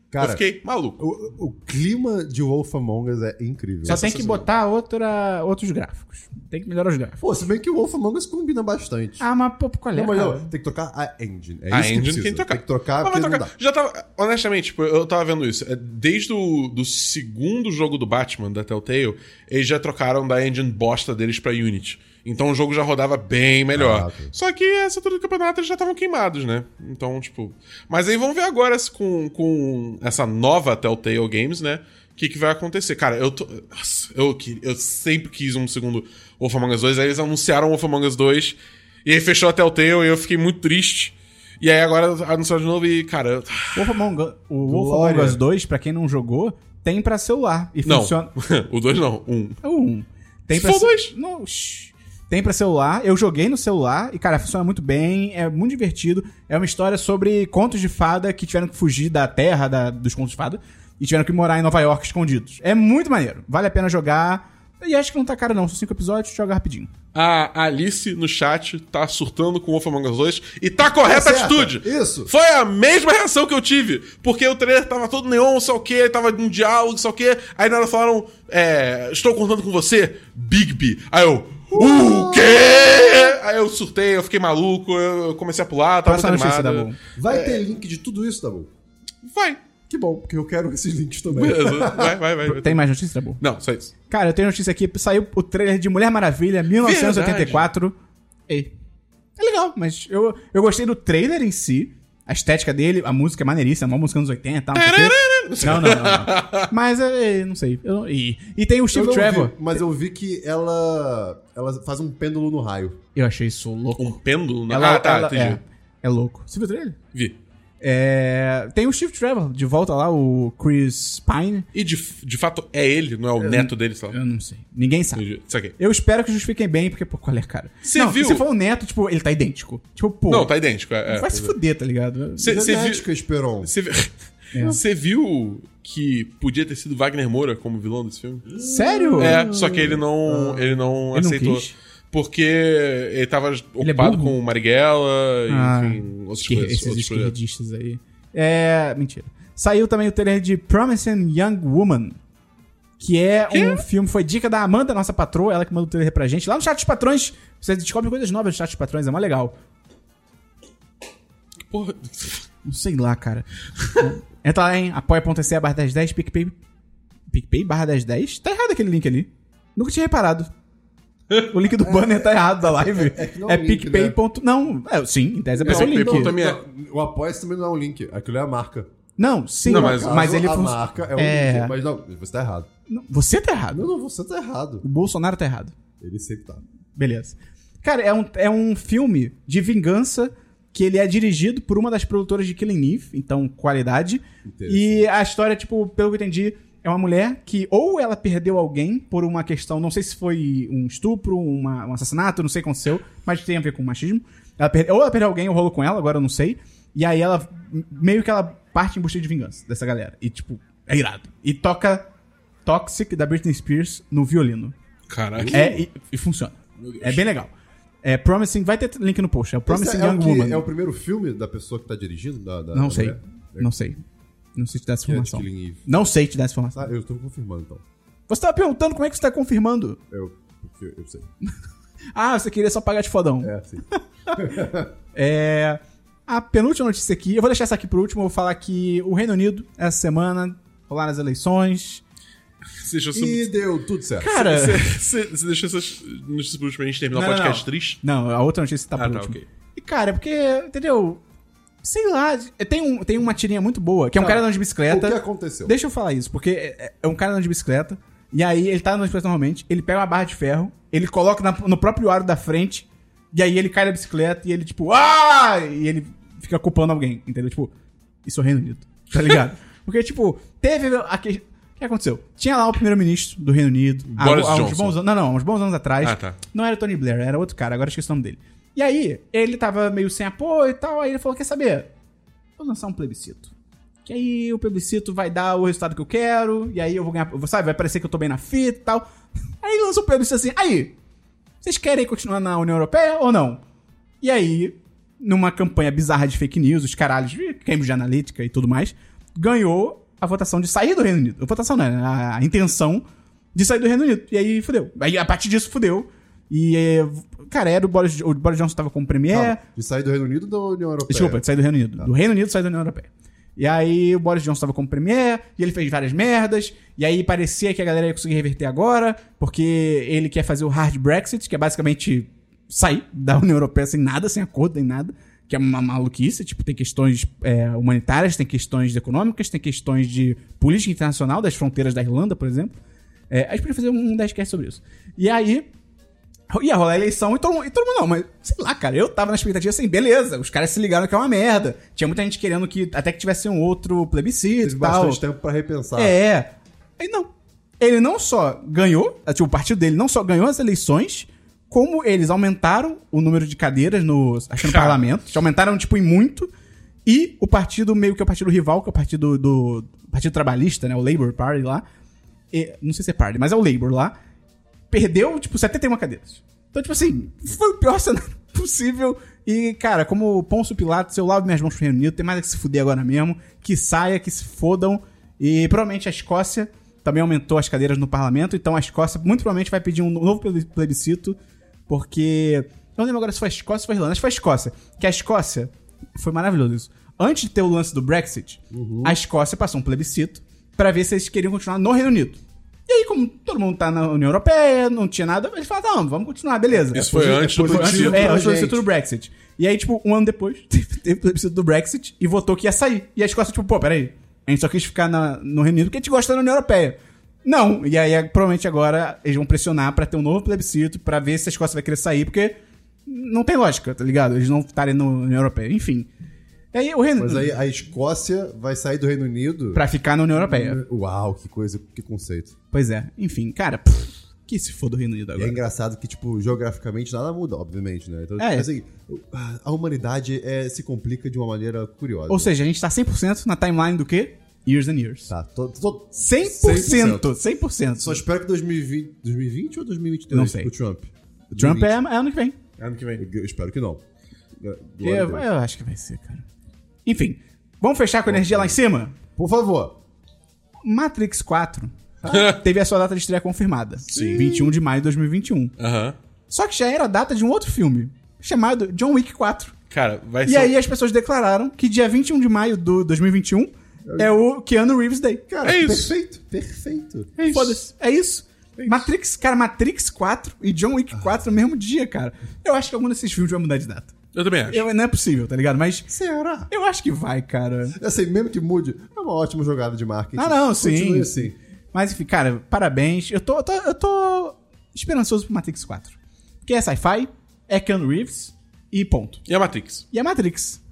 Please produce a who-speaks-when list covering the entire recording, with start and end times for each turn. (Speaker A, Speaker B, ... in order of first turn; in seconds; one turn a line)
Speaker A: 0.1-0.4
Speaker B: 0.2-1.0
Speaker A: 1.0-4.1
Speaker B: 3.8-4.5
Speaker C: 3.9-7.2
Speaker A: 7.2-9.3
Speaker C: 9.2-10.5
Speaker A: 9.9-13.5
Speaker B: 11.7-43.9
Speaker A: 23.7-24.3
Speaker C: 43.8-48.3
Speaker A: 44.6-45.4
Speaker B: 47.9-49.6
Speaker C: 49.6-66.9
Speaker B: 50.5-51.1
Speaker B: 67.1-87.6
Speaker A: 71.0-72.3
Speaker A: 81.7-83.3
Speaker C: 86.0-87.0
Speaker A: 87.2-88.7
Speaker B: 89.2-89.6
Speaker A: 89.9-92.2
Speaker B: 91.3-92.8
Speaker C: 92.5-93.4
Speaker B: 93.4-93.9
Speaker C: 94.1-98.0
Speaker B: 96.8-97.7
Speaker C: 99.4-109.7
Speaker B: 104.7-106.7
Speaker A: 108.9-113.0
Speaker C: 113.2-114.2
Speaker B: 114.0-115.6
Speaker C: 114.7-117.0
Speaker C: 117.8-121.7
Speaker B: 121.7-124.2
Speaker C: 123.4-125.2
Speaker B: 125.2-125.8
Speaker C: 125.8-130.5
Speaker B: 127.8-128.4
Speaker B: 130.3-131.5
Speaker C: 131.1-132.5
Speaker B: 132.4-133.1
Speaker A: 132.4-133.7
Speaker B: 133.6-138.5
Speaker C: 134.5-134.8
Speaker A: 138.5-140.8
Speaker C: 138.6-139.5
Speaker B: 139.2-147.3
Speaker C: 141.1-141.7
Speaker C: 143.8-144.4
Speaker C: 145.5-152.2
Speaker C: 153.0-159.6
Speaker B: 153.5-153.8
Speaker B: 161.7-162.4
Speaker C: 162.6-166.6
Speaker C: 167.3-170.5
Speaker C: 171.5-176.3
Speaker A: 171.8-174.2
Speaker A: 175.5-178.9
Speaker B: 175.7-176.6
Speaker C: 179.2-181.8
Speaker A: 179.7-182.7
Speaker B: 179.7-180.2
Speaker C: 182.9-183.9
Speaker A: 183.7-184.8
Speaker C: 184.8-185.8
Speaker A: 186.0-186.6
Speaker C: 187.0-212.1
Speaker A: 194.4-195.1
Speaker C: 212.7-214.8
Speaker B: 215.1-215.6
Speaker A: 215.3-215.8
Speaker C: 215.5-217.5
Speaker B: 216.8-217.3
Speaker C: 218.0-220.7
Speaker A: 219.7-223.7
Speaker C: 222.7-224.0
Speaker C: 224.6-226.9
Speaker A: 225.1-226.0
Speaker A: 226.8-227.8
Speaker C: 228.3-230.0
Speaker A: 230.1-231.3
Speaker C: 232.2-242.0
Speaker A: 233.4-234.9
Speaker B: 242.8-243.5
Speaker A: 243.1-244.4
Speaker C: 244.2-245.0
Speaker B: 244.2-248.0
Speaker C: 247.1-251.2
Speaker B: 249.0-249.4
Speaker C: 251.8-267.7
Speaker A: 254.2-255.7
Speaker C: 268.2-281.9
Speaker B: 274.1-275.0
Speaker B: 276.0-276.4
Speaker C: 282.6-283.5
Speaker C: 284.1-289.1
Speaker C: 289.6-290.9
Speaker C: 291.6-293.6
Speaker C: 294.2-309.6
Speaker A: 309.3-311.4
Speaker C: 311.1-332.8
Speaker C: 333.3-335.7
Speaker C: 336.5-345.2
Speaker A: 344.6-346.2
Speaker C: 346.0-347.3
Speaker C: 347.8-356.5
Speaker B: 354.6-355.1
Speaker C: 357.1-361.9
Speaker C: 362.5-364.1
Speaker C: 364.9-381.4
Speaker C: 381.9-416.1
Speaker A: 388.7-389.2
Speaker B: 396.9-398.4
Speaker A: 397.1-398.8
Speaker C: 416.7-417.5
Speaker A: 417.2-422.6
Speaker C: 419.7-420.8
Speaker C: 422.7-425.6
Speaker A: 425.4-432.5
Speaker C: 428.4-428.7
Speaker C: 432.3-435.3
Speaker A: 435.3-437.3
Speaker C: 436.1-438.2
Speaker A: 438.0-442.0
Speaker C: 440.3-440.7
Speaker C: 441.5-442.6
Speaker B: 442.8-443.2
Speaker A: 443.2-444.0
Speaker A: 444.6-445.5
Speaker C: 445.0-446.5
Speaker C: 447.1-449.1
Speaker A: 448.3-448.8
Speaker A: 449.4-450.0
Speaker C: 450.8-455.7
Speaker B: 452.3-452.6
Speaker B: 454.1-454.6
Speaker A: 454.2-454.5
Speaker B: 455.8-456.2
Speaker C: 456.5-459.7
Speaker B: 459.9-460.8
Speaker C: 460.4-465.4
Speaker A: 464.1-464.4
Speaker A: 465.5-467.3
Speaker B: 465.6-466.1
Speaker B: 467.4-467.8
Speaker C: 467.5-474.2
Speaker B: 468.8-469.1
Speaker A: 471.1-471.4
Speaker B: 474.3-474.9
Speaker C: 474.7-476.1
Speaker A: 476.1-476.7
Speaker C: 476.7-478.0
Speaker A: 477.9-481.6
Speaker C: 480.4-489.4
Speaker B: 489.5-490.1
Speaker C: 490.1-490.8